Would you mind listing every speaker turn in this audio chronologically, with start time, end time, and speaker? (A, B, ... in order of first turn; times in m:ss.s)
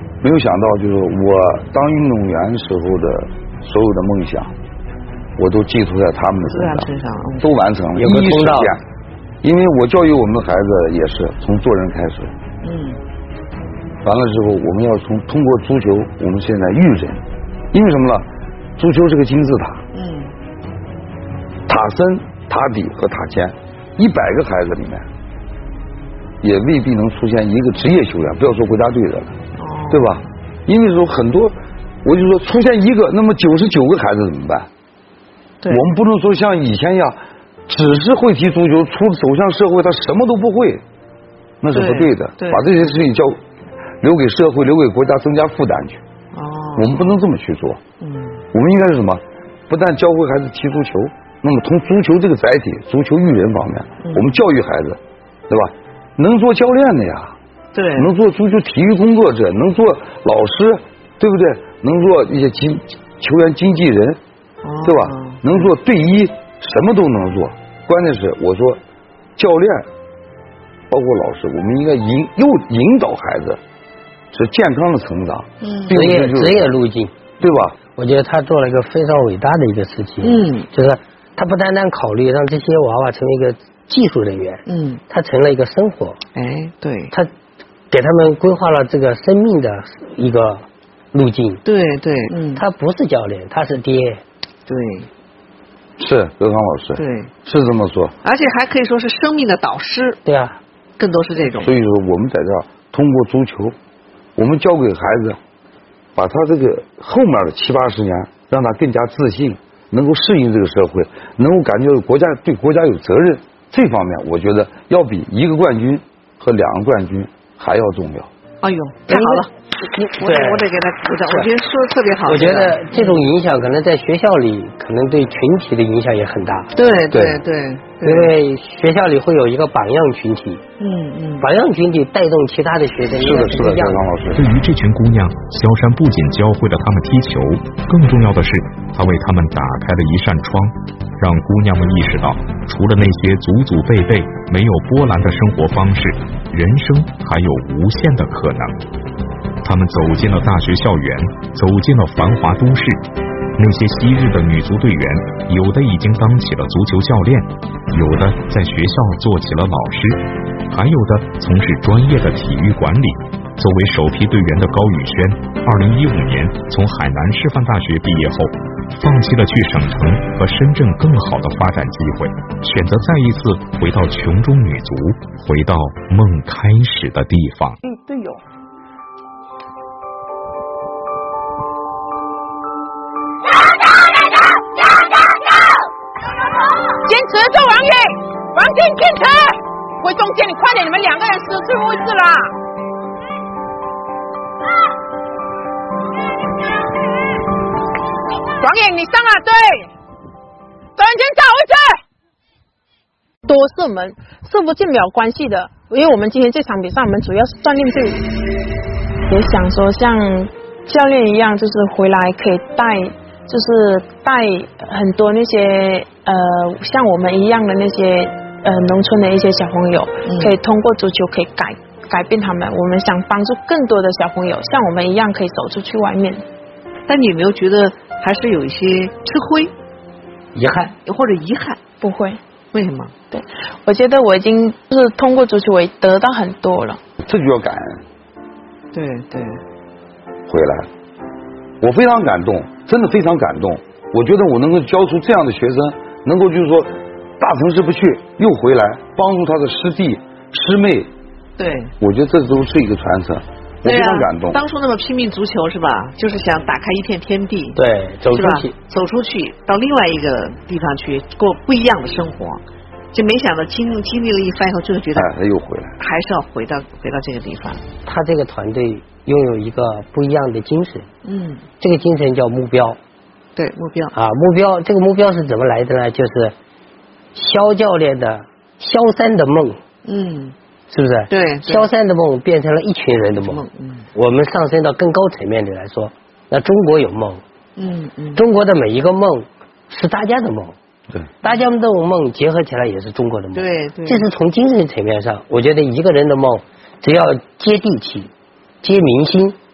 0:00.2-0:04.5 A
0:05.4-0:08.8 A
0:06.4-0:07.6 B
0:08.0-0:08.7 C
0:09.4-0:12.3 A
0:12.6-0:13.0 B
0:14.0-0:19.8 A
0:19.9-0:20.3 B
0:21.7-0:25.0 A
0:26.4-0:29.4 A
0:29.6-0:30.2 B
0:29.9-0:34.7 A
0:35.6-0:35.9 B
0:35.7-0:37.2 A
0:37.7-0:40.8 A
0:41.6-0:43.4 A
0:41.7-0:42.8 B
0:44.0-0:46.0 A
0:46.3-0:47.2 B
0:46.8-0:47.8 A
0:48.0-0:48.4 B
0:48.5-0:57.4 A
0:54.0-0:54.3 B
0:57.7-0:58.1 B
0:57.9-1:04.2 A
1:04.6-1:05.7 B
1:04.8-1:08.8 A
1:09.4-1:09.9 A
1:10.9-1:13.6 A
1:14.3-1:16.6 A
1:15.6-1:16.0 B
1:15.9-1:17.2 C
1:17.4-1:17.8 A
1:17.8-1:26.2 C
1:20.2-1:20.7 B
1:24.7-1:25.0 B
1:26.4-1:27.1 B
1:27.9-1:31.6 C
1:31.6-1:32.6 B
1:32.5-1:34.2 C
1:34.7-1:35.1 B
1:36.0-1:38.1 A
1:37.0-1:37.3 B
1:38.2-1:40.2 B
1:40.2-1:40.6 C
1:41.0-1:41.7 B
1:41.6-1:43.7 A
1:44.4-1:45.4 A
1:46.2-1:58.3 A
1:58.6-1:59.5 B
1:59.1-2:00.6 C
2:00.1-2:03.2 B
2:02.2-2:06.7 C
2:06.7-2:08.3 B
2:07.1-2:07.4 A
2:08.0-2:10.6 C
2:10.8-2:11.5 B
2:11.4-2:14.0 C
2:13.2-2:14.4 A
2:14.3-2:28.8 D
2:29.6-2:33.0 D
2:33.6-2:57.8 D
2:57.9-2:58.4 E
3:03.6-3:05.7 E
3:07.0-3:12.5 E
3:18.6-3:19.9 E
3:21.0-3:22.0 E
3:23.4-3:28.3 E
3:29.3-3:46.4 E
3:40.2-3:40.6 B
3:47.1-3:49.7 B
3:50.5-3:50.9 C
3:51.0-3:51.8 B
3:52.0-3:52.4 E
3:52.7-3:53.1 B
3:53.3-3:57.0 E
3:57.2-3:58.0 A
3:58.9-3:59.6 B
4:00.5-4:00.9 A
4:01.8-4:11.1 A
4:11.6-4:11.9 B
4:12.0-4:14.6 A
4:13.8-4:17.8 B
4:17.8-4:18.7 C
4:18.3-4:22.6 B
4:23.1-4:25.3 B
4:25.1-4:25.9 A
4:26.0-4:27.8 B
4:28.0-4:31.1 C
4:31.2-4:31.6 B
4:31.8-4:33.0 C
4:33.6-4:34.1 B
4:34.1-4:36.5 C
4:37.3-4:39.8 C
4:40.0-4:40.5 B
4:40.9-4:43.6 C
4:41.3-4:41.9 B
4:43.4-4:44.0 B
4:44.1-4:47.4 C
4:47.8-4:48.4 B
4:48.3-4:50.8 C
4:51.4-4:58.3 C
4:53.5-4:54.2 B
4:58.8-4:59.6 C